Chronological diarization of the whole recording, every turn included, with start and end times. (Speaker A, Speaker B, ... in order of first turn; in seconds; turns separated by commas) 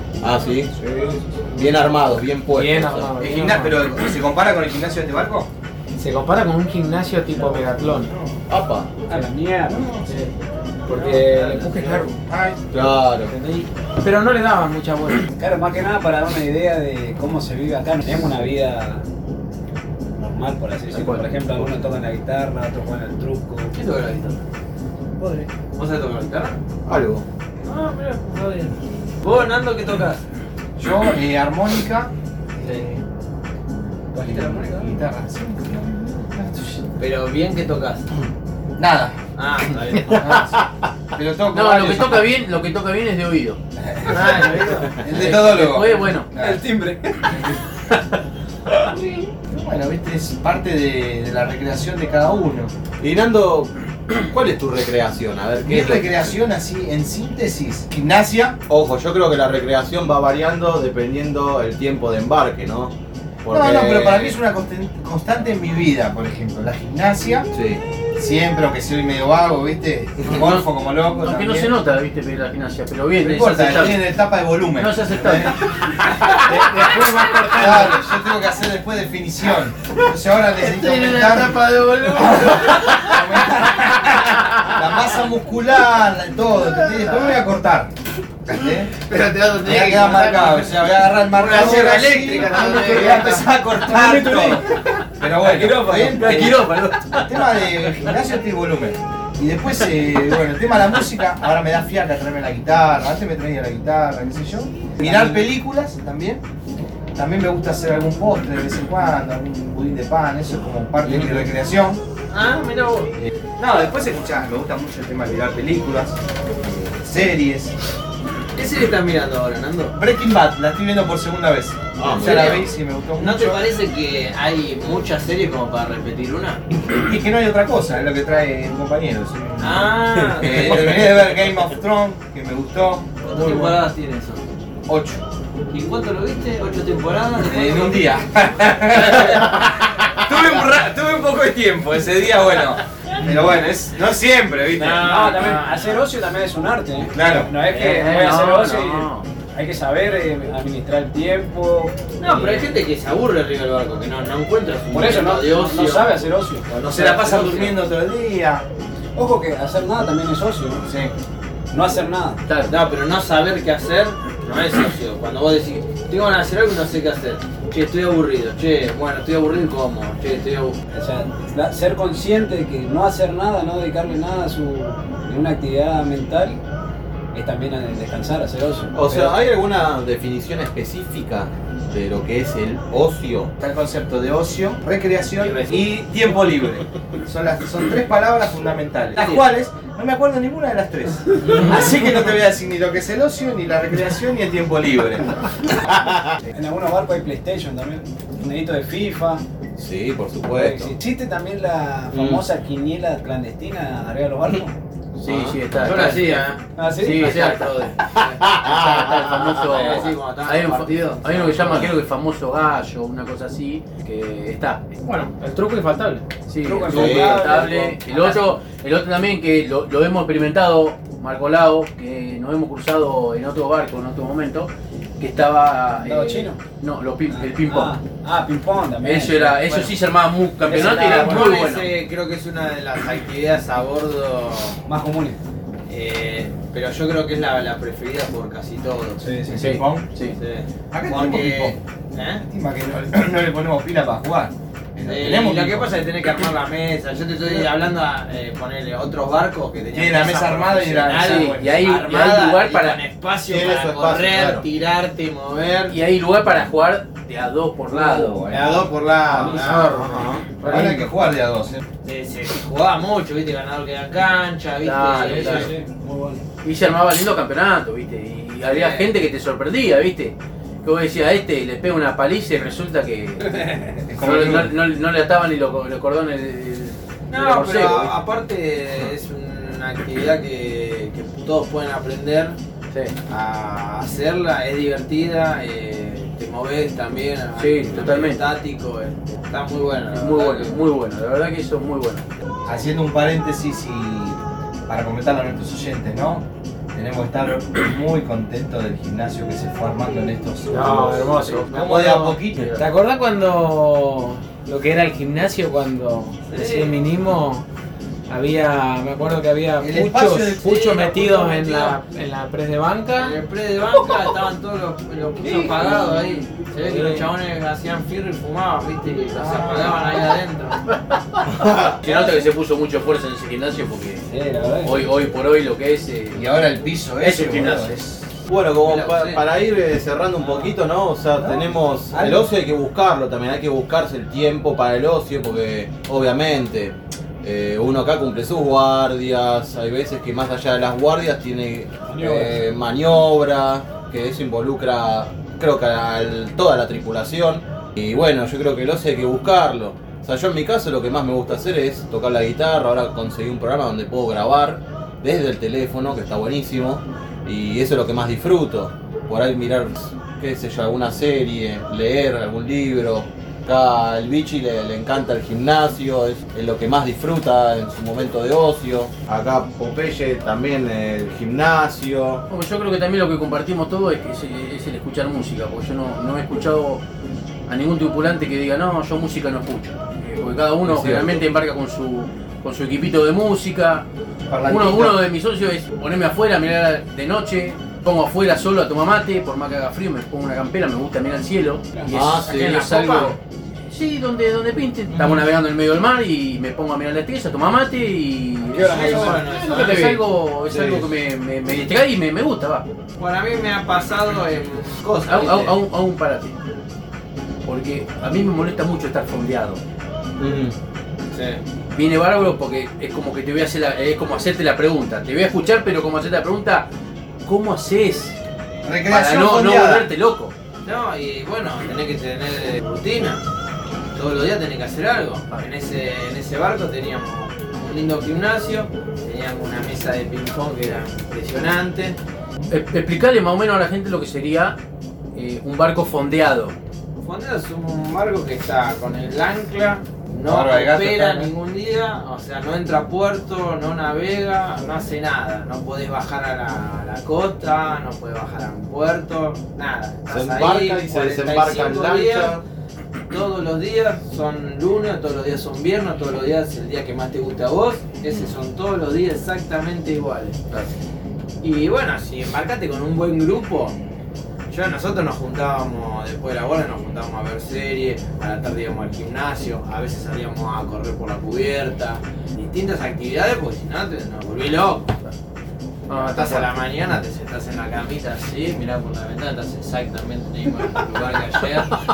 Speaker A: 0.2-0.7, Speaker B: 0.8-1.3, Speaker A: 1.5-3.1, Speaker C: 2.5-3.8, Speaker D: 3.2-5.5, Speaker C: 6.0-8.1, Speaker D: 7.3-8.3, Speaker A: 8.5-8.9, Speaker B: 9.1-9.9, Speaker D: 9.7-10.2, Speaker C: 10.0-10.3, Speaker C: 10.9-12.1, Speaker E: 10.9-12.0, Speaker D: 12.3-12.6, Speaker A: 12.7-13.3, Speaker C: 13.2-15.3, Speaker B: 15.3-19.1, Speaker B: 20.2-23.7, Speaker F: 20.9-21.9, Speaker E: 23.7-24.4, Speaker E: 25.2-26.6, Speaker A: 26.9-27.2, Speaker E: 27.6-30.2, Speaker D: 30.8-33.0, Speaker E: 34.1-35.0, Speaker D: 34.1-36.8, Speaker E: 37.0-38.1, Speaker D: 38.8-39.2, Speaker E: 39.4-40.4, Speaker D: 39.9-42.3, Speaker F: 41.5-43.6, Speaker D: 43.8-46.6, Speaker E: 44.1-44.9, Speaker F: 45.1-46.3, Speaker B: 46.3-47.6, Speaker D: 48.8-52.7, Speaker A: 53.0-56.4, Speaker D: 55.6-58.6, Speaker A: 58.7-64.4, Speaker D: 63.5-67.5, Speaker A: 67.5-67.8, Speaker D: 68.2-71.7, Speaker F: 70.2-70.7, Speaker F: 71.2-74.0, Speaker D: 73.2-75.6, Speaker E: 73.3-73.7, Speaker F: 74.8-75.6, Speaker D: 76.3-87.9, Speaker C: 76.3-78.0, Speaker E: 80.6-82.3, Speaker D: 88.5-89.0, Speaker E: 89.1-90.1, Speaker D: 89.6-106.4, Speaker C: 90.2-90.5, Speaker E: 91.3-93.4, Speaker F: 92.3-93.3, Speaker B: 93.7-96.8, Speaker F: 96.1-97.7, Speaker B: 105.0-105.5, Speaker D: 107.2-112.0, Speaker E: 112.3-113.1, Speaker D: 113.6-117.7, Speaker E: 118.5-120.0, Speaker D: 120.0-123.6, Speaker A: 122.0-122.6, Speaker E: 122.1-126.6, Speaker D: 126.8-133.8, Speaker E: 129.6-131.7, Speaker E: 133.2-134.4, Speaker D: 134.8-135.2, Speaker E: 135.7-142.6, Speaker D: 137.4-145.1, Speaker E: 144.8-146.1, Speaker B: 145.0-152.7, Speaker D: 147.1-147.5, Speaker F: 147.7-149.3, Speaker E: 152.2-157.8, Speaker B: 154.9-156.8, Speaker D: 156.8-158.7, Speaker B: 159.2-160.8, Speaker D: 160.8-161.1, Speaker B: 161.7-162.4, Speaker F: 162.4-162.8, Speaker E: 162.7-170.8, Speaker B: 170.9-176.6, Speaker B: 177.3-179.3, Speaker A: 178.9-183.5, Speaker D: 183.6-195.6, Speaker E: 185.4-185.7, Speaker E: 189.2-189.4, Speaker A: 195.8-196.3, Speaker B: 196.5-199.4, Speaker A: 199.8-200.9, Speaker B: 200.5-204.8, Speaker A: 202.1-202.4, Speaker A: 205.2-205.6, Speaker F: 205.2-206.4, Speaker E: 205.8-208.5, Speaker B: 206.8-207.6, Speaker F: 207.0-207.9, Speaker A: 208.2-210.1, Speaker F: 208.6-214.8, Speaker E: 209.7-212.0, Speaker A: 211.6-211.9, Speaker C: 214.9-216.2, Speaker F: 216.4-227.9, Speaker B: 216.6-218.5, Speaker A: 216.9-217.4, Speaker B: 226.0-226.6, Speaker B: 227.3-230.0, Speaker F: 229.0-231.9, Speaker B: 230.6-231.5, Speaker E: 230.7-234.8, Speaker B: 234.8-235.4, Speaker E: 235.9-239.3, Speaker B: 239.2-239.6, Speaker D: 239.5-240.1, Speaker F: 239.5-240.3, Speaker E: 240.3-242.4, Speaker D: 240.9-241.8, Speaker D: 242.4-246.0, Speaker E: 245.1-255.9, Speaker D: 249.9-251.8, Speaker F: 251.2-253.0, Speaker A: 253.4-254.6, Speaker F: 255.9-258.5, Speaker D: 257.9-261.8, Speaker E: 258.5-259.8, Speaker B: 258.5-260.1, Speaker C: 259.7-261.2, Speaker A: 259.9-260.4, Speaker E: 262.0-265.7, Speaker F: 264.8-265.7, Speaker B: 265.2-266.4, Speaker F: 266.6-273.5, Speaker E: 268.6-269.1, Speaker D: 274.1-274.7, Speaker F: 274.1-278.1, Speaker E: 277.3-282.6, Speaker E: 283.3-290.7, Speaker F: 287.6-288.4, Speaker F: 290.1-292.2, Speaker D: 292.6-302.8, Speaker C: 300.7-307.6, Speaker F: 302.5-302.8, Speaker E: 306.5-307.0, Speaker C: 308.3-313.4, Speaker D: 309.8-311.9, Speaker E: 310.6-311.9, Speaker E: 313.1-320.8, Speaker B: 315.4-316.2, Speaker C: 316.8-317.3, Speaker D: 319.3-320.2, Speaker A: 321.6-321.9, Speaker F: 321.9-324.2, Speaker B: 324.3-325.1, Speaker F: 324.8-326.4, Speaker D: 326.3-328.2, Speaker F: 327.2-328.0, Speaker A: 328.5-372.4, Speaker E: 328.8-329.4, Speaker D: 331.4-331.7, Speaker B: 332.1-332.5, Speaker B: 342.1-342.5, Speaker F: 372.5-377.0, Speaker F: 377.7-384.1, Speaker A: 380.8-381.4, Speaker D: 384.5-385.2, Speaker F: 384.6-393.4, Speaker A: 392.1-392.8, Speaker E: 392.5-393.3, Speaker F: 393.9-402.9, Speaker B: 398.6-399.5, Speaker E: 398.8-400.2, Speaker A: 400.7-401.1, Speaker E: 403.2-405.8, Speaker F: 405.3-406.6, Speaker F: 407.6-409.8, Speaker A: 410.4-410.7, Speaker E: 411.3-411.6, Speaker F: 411.9-416.9, Speaker F: 417.4-418.4, Speaker D: 418.8-420.1, Speaker F: 419.1-420.5, Speaker E: 420.8-423.4, Speaker E: 424.1-432.2, Speaker F: 432.7-434.8, Speaker F: 435.3-436.8, Speaker E: 437.2-452.6, Speaker D: 440.5-441.5, Speaker A: 450.3-452.6, Speaker E: 453.3-460.6, Speaker E: 461.6-464.0, Speaker E: 464.7-475.1, Speaker F: 476.1-476.7, Speaker E: 476.1-481.9